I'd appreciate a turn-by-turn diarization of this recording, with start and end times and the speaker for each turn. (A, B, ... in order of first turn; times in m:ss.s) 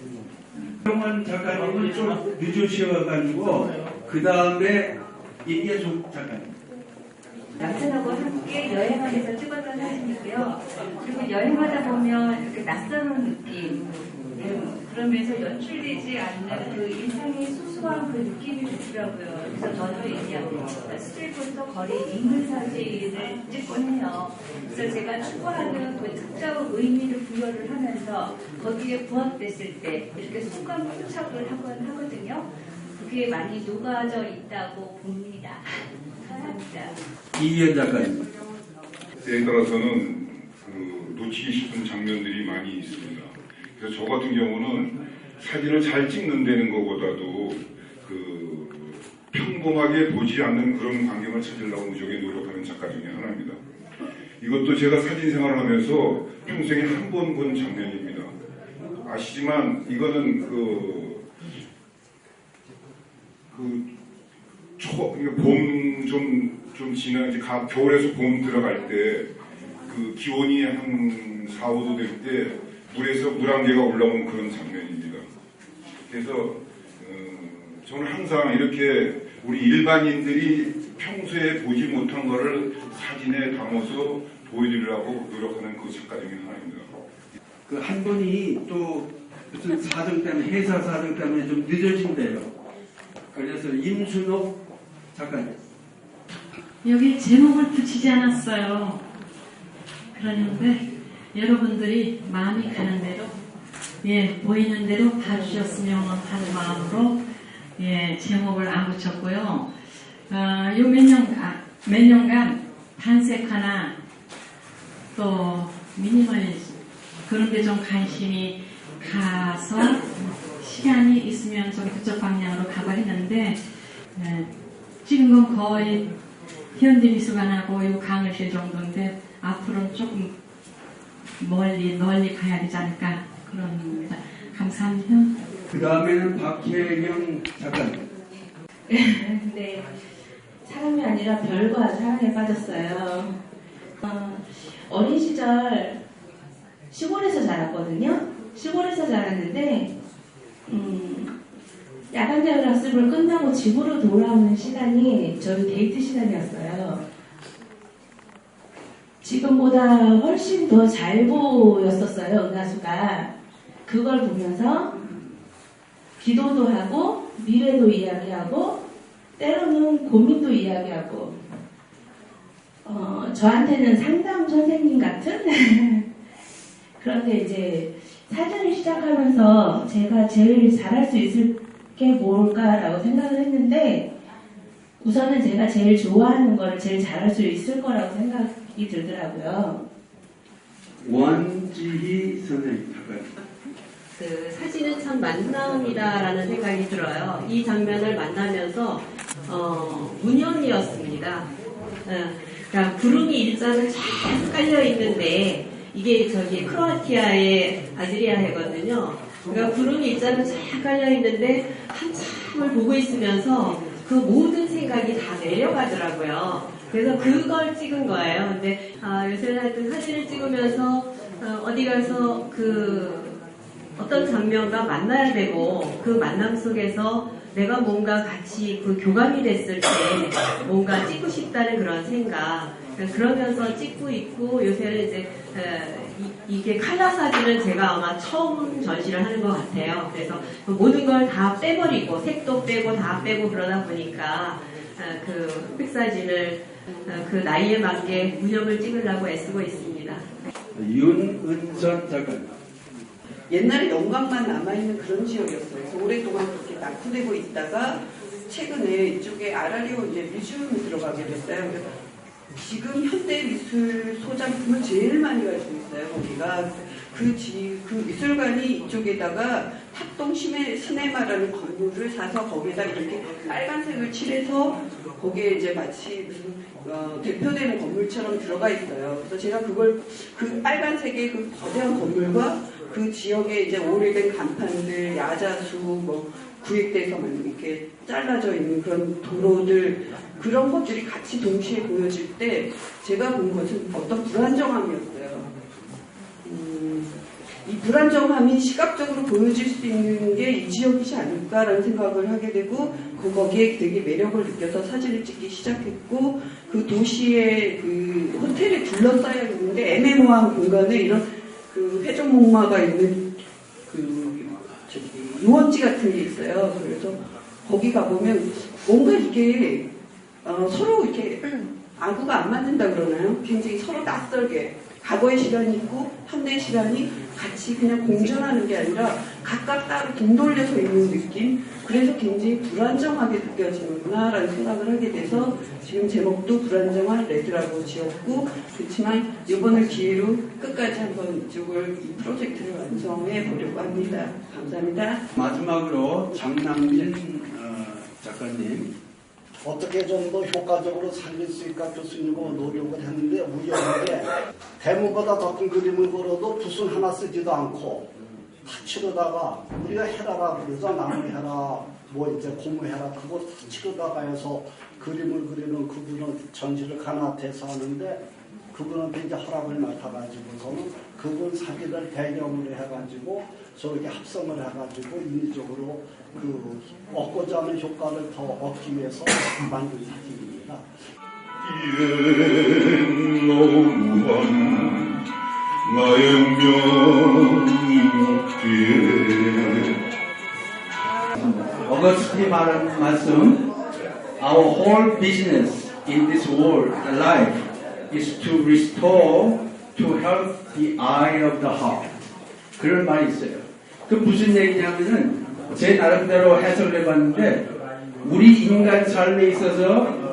0:00.9-0:06.5 A
0:07.6-0:36.9 B
0:37.3-0:38.2 A
0:39.2-0:53.6 C
0:54.4-0:58.3 C
0:59.0-1:01.2 C
1:03.5-1:03.9 C
1:04.8-1:09.3 C
1:09.9-1:15.2 C
1:16.1-1:26.9 C
1:27.7-1:32.5 A
1:33.3-1:34.6 A
1:35.1-1:35.6 A
1:36.8-1:39.0 D
1:40.1-1:43.4 D
1:44.0-1:47.2 D
1:47.8-1:49.7 D
1:50.3-1:54.0 D
1:55.1-2:04.5 D
2:05.0-2:06.1 D
2:06.7-2:10.3 D
2:11.4-2:15.4 D
2:15.7-2:18.0 A
2:18.9-2:19.9 E
2:20.6-2:23.4 E
2:24.0-2:26.0 E
2:26.9-2:29.9 E
2:30.7-2:31.3 E
2:32.1-2:37.0 E
2:39.2-2:43.3 E
2:43.8-2:45.1 E
2:46.2-2:48.8 E
2:49.4-2:51.4 E
2:52.8-2:56.1 E
2:57.0-3:04.1 E
3:05.0-3:09.8 E
3:11.0-3:13.3 A
3:14.2-3:21.5 F
3:22.0-3:43.4 F
3:44.0-4:10.2 F
4:10.7-4:12.6 A
4:13.5-4:21.9 G
4:22.6-4:55.5 G
4:56.4-5:13.3 G
5:13.9-5:19.9 G
5:20.4-5:45.2 G
5:45.3-5:48.9 A
5:49.6-5:58.1 H
5:58.6-6:20.8 H
6:21.6-6:25.2 C
6:25.8-6:30.0 C
6:31.4-6:33.7 A
6:34.4-6:42.1 A
6:42.8-6:47.7 A
6:48.2-6:50.2 A